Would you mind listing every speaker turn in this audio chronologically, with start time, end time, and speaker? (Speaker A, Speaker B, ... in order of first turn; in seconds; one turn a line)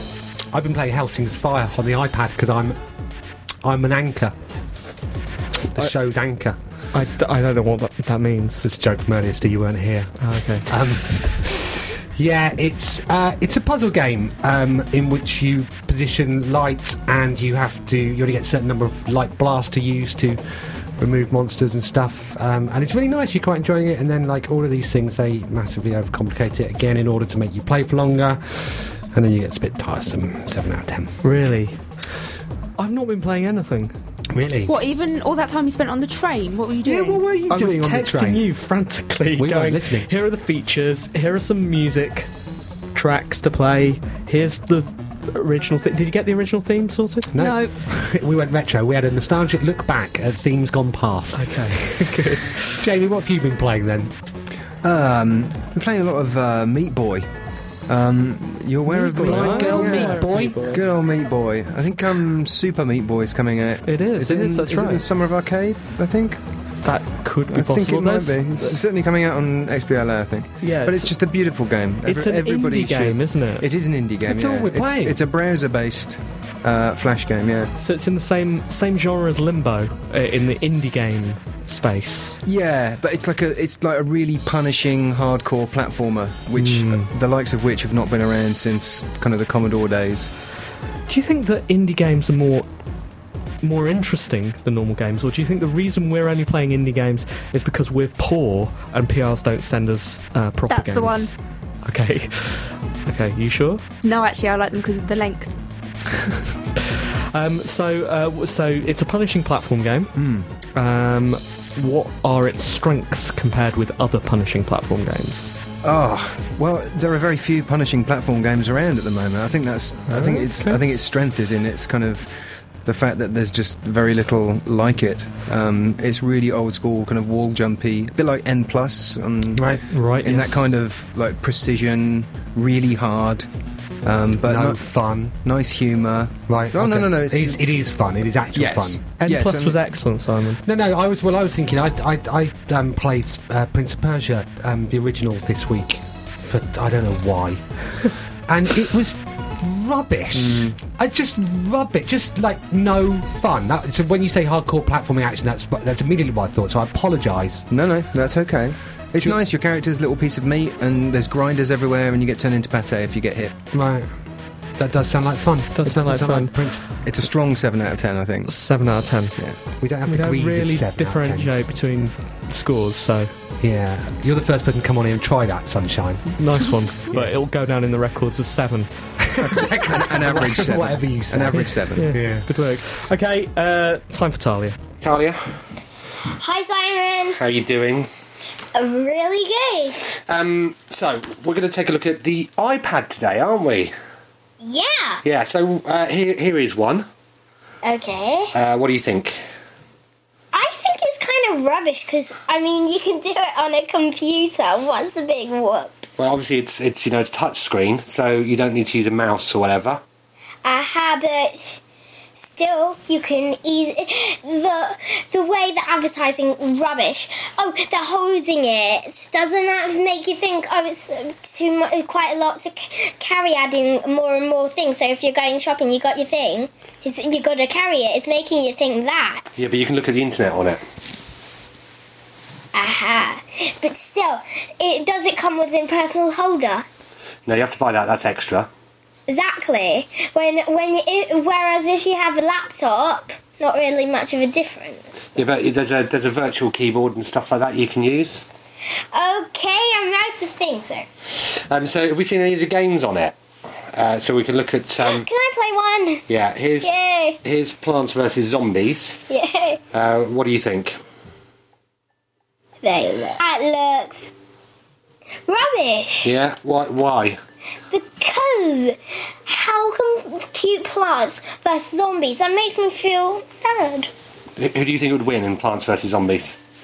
Speaker A: 0.5-2.8
Speaker A: 3.6-4.3
Speaker A: 5.7-6.6
Speaker B: 6.9-8.7
Speaker A: 8.6-10.1
Speaker B: 10.2-10.7
Speaker A: 10.7-20.4
Speaker A: 21.0-31.2
Speaker B: 31.2-31.8
Speaker B: 32.8-33.9
Speaker A: 34.3-34.7
Speaker C: 34.7-37.2
Speaker A: 36.8-38.5
Speaker B: 37.5-42.3
Speaker A: 39.4-40.1
Speaker B: 42.9-47.3
Speaker A: 47.3-54.1
Speaker C: 47.4-47.7
Speaker B: 51.3-52.9
Speaker D: 54.8-57.3
Speaker D: 57.9-66.8
Speaker B: 58.9-60.8
Speaker A: 59.2-60.8
Speaker B: 63.9-65.0
Speaker B: 66.8-68.8
Speaker D: 67.5-77.7
Speaker B: 70.6-71.2
Speaker B: 72.0-73.7
Speaker A: 74.2-75.2
Speaker B: 77.8-82.4
Speaker D: 82.5-90.3
Speaker B: 86.6-87.1
Speaker B: 91.1-92.7
Speaker B: 93.6-101.3
Speaker C: 100.7-101.3
Speaker B: 101.8-103.8
Speaker C: 104.0-105.6
Speaker B: 107.3-110.2
Speaker D: 110.2-110.5
Speaker B: 110.7-115.5
Speaker D: 115.8-122.3
Speaker B: 120.1-120.8
Speaker D: 122.8-129.7
Speaker A: 129.6-129.9
Speaker B: 129.9-130.6
Speaker D: 130.2-133.5
Speaker D: 134.0-134.8
Speaker A: 134.4-135.4
Speaker D: 135.4-137.8
Speaker A: 136.5-139.0
Speaker D: 138.6-139.8
Speaker B: 139.2-140.6
Speaker A: 140.7-157.7
Speaker D: 150.4-150.8
Speaker D: 157.7-163.6
Speaker A: 163.7-164.1
Speaker A: 164.8-166.8
Speaker B: 165.8-166.6
Speaker D: 167.0-168.7
Speaker B: 168.5-169.4
Speaker A: 169.8-171.7
Speaker B: 170.1-173.3
Speaker A: 173.6-176.4
Speaker B: 176.4-178.9
Speaker A: 179.3-182.5
Speaker D: 179.4-182.1
Speaker B: 181.9-184.8
Speaker E: 185.0-185.6
Speaker F: 186.4-187.4
Speaker E: 187.3-188.1
Speaker F: 188.8-190.0
Speaker E: 190.2-193.9
Speaker F: 194.6-195.2
Speaker E: 195.2-197.1
Speaker F: 197.8-198.5
Speaker E: 198.5-199.4
Speaker F: 200.5-206.1
Speaker E: 206.2-210.0
Speaker F: 210.7-211.8
Speaker F: 212.4-229.7
Speaker E: 229.6-230.8
Speaker F: 232.7-236.8
Speaker E: 237.5-238.7
Speaker F: 239.3-245.3
Speaker E: 245.3-248.5
Speaker F: 249.1-251.1
Speaker E: 251.6-253.4
Speaker E: 253.9-255.3
Speaker F: 255.0-256.2
Speaker E: 256.3-259.2
Speaker F: 256.8-257.4
Speaker F: 259.3-259.8
Speaker E: 259.9-261.0
Speaker F: 262.8-264.3
Speaker F: 265.5-266.3
Speaker E: 266.2-267.4
Speaker F: 267.9-274.1
Speaker E: 274.6-276.6